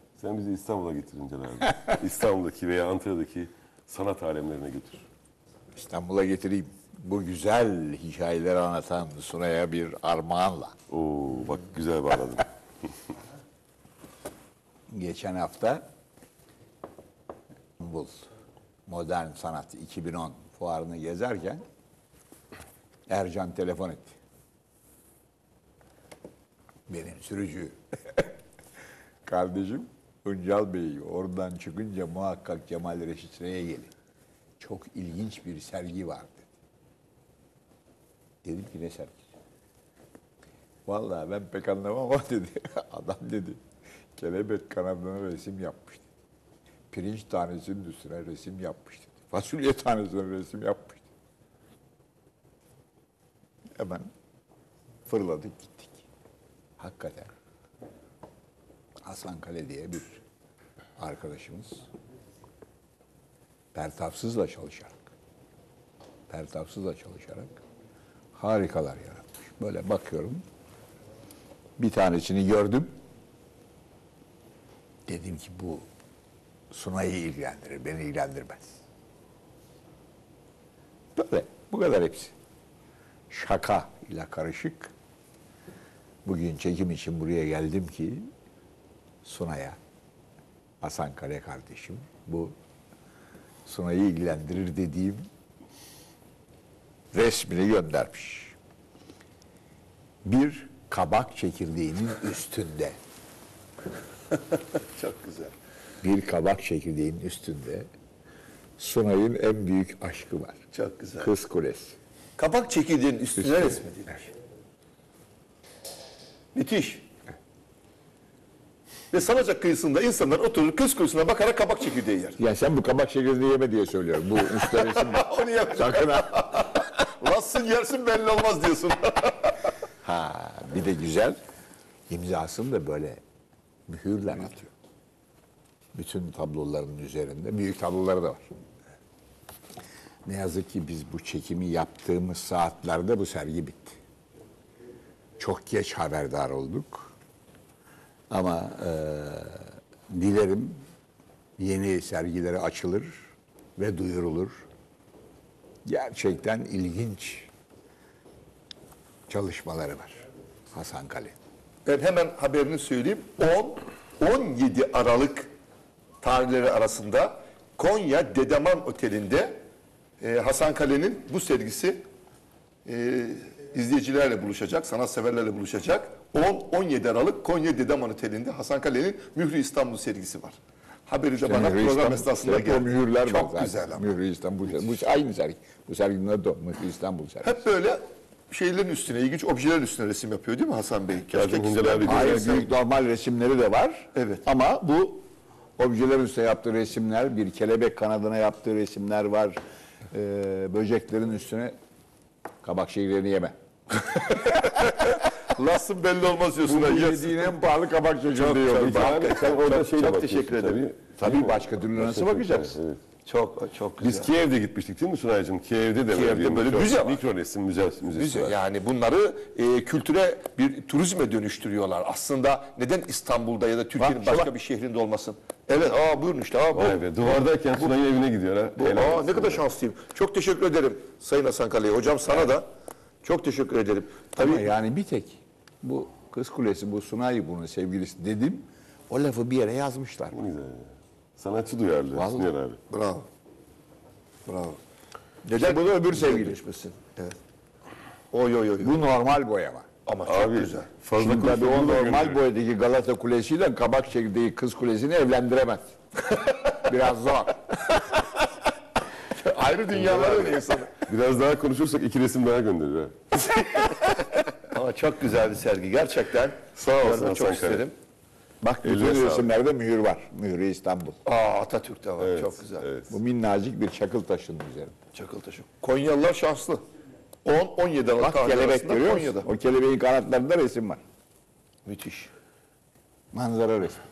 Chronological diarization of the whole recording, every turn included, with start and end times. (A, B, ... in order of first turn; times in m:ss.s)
0:00.2-0:05.0 A
0:05.7-0:10.8 B
0:10.9-0:12.9 A
0:14.9-0:15.8 B
0:17.8-0:18.3 B
0:18.9-0:21.6 B
0:23.1-0:24.2 B
0:26.9-0:28.3 B
0:29.2-0:33.9 B
0:34.6-0:36.5 B
0:38.4-0:39.2 B
0:40.8-0:43.6 B
0:44.1-0:46.0 B
0:46.9-0:51.0 B
0:53.8-0:54.1 B
0:55.1-0:56.0 B
0:56.8-0:57.3 B
0:59.0-1:00.2 B
1:01.0-1:01.9 B
1:03.7-1:05.1 B
1:06.3-1:07.6 B
1:08.3-1:10.4 B
1:11.8-1:12.9 B
1:15.1-1:15.9 B
1:16.7-1:18.8 B
1:21.1-1:22.3 B
1:23.3-1:24.9 B
1:26.2-1:28.3 B
1:29.2-1:29.8 B
1:30.8-1:32.5 B
1:33.6-1:35.2 B
1:37.1-1:38.5 B
1:40.2-1:43.0 B
1:44.5-1:45.5 C
1:46.0-1:47.9 B
1:48.8-1:50.6 B
1:50.7-1:51.3 C
1:51.2-1:52.0 B
1:52.4-1:54.2 C
1:56.5-1:57.0 C
1:59.1-2:02.4 C
2:02.4-2:06.8 B
2:04.6-2:09.6 C
2:10.0-2:11.4 B
2:12.1-2:13.2 B
2:13.9-2:14.7 B
2:15.9-2:18.5 B
2:20.2-2:24.0 B
2:25.4-2:27.1 B
2:28.3-2:30.8 B
2:31.6-2:33.2 B
2:33.8-2:34.6 B
2:35.8-2:37.5 B
2:39.3-2:41.3 B
2:41.8-2:45.5 C
2:46.2-2:49.6 C
2:50.2-2:52.0 C
2:52.8-3:04.1 C
3:01.4-3:07.6 B
3:07.4-3:12.7 C
3:11.3-3:12.7 A
3:12.0-3:15.2 B
3:14.1-3:14.4 C
3:15.8-3:19.6 B
3:20.1-3:21.7 B
3:22.6-3:25.1 B
3:24.3-3:27.4 C
3:26.7-3:29.3 B
3:26.8-3:27.2 A
3:28.3-3:30.8 C
3:28.4-3:33.0 A
3:31.2-3:32.8 B
3:33.2-3:34.3 C
3:34.0-3:38.6 A
3:36.1-3:37.2 C
3:38.1-3:47.4 C
3:44.0-3:44.5 B
3:46.7-3:49.6 A
3:48.8-3:52.6 C
3:53.2-3:54.7 C
3:54.4-4:00.4 B
4:00.3-4:02.8 A
4:02.1-4:02.5 B
4:02.9-4:03.3 C
4:04.4-4:04.8 C
4:05.4-4:06.6 B
4:05.4-4:07.4 C
4:08.3-4:09.0 C
4:08.8-4:09.9 B
4:10.0-4:10.9 C
4:10.3-4:12.4 A
4:11.2-4:15.8 B
4:16.3-4:16.7 C
4:16.7-4:17.8 B
4:17.9-4:18.3 C
4:19.2-4:21.0 C
4:20.0-4:23.4 A
4:24.7-4:27.9 C
4:26.8-4:27.8 A
4:28.6-4:31.2 B
4:28.8-4:29.5 A
4:31.2-4:32.9 C
4:32.2-4:33.1 A
4:33.1-4:34.9 B
4:35.1-4:36.8 C
4:37.4-4:39.5 C
4:38.2-4:41.0 B
4:41.8-4:42.3 C
4:43.3-4:44.0 B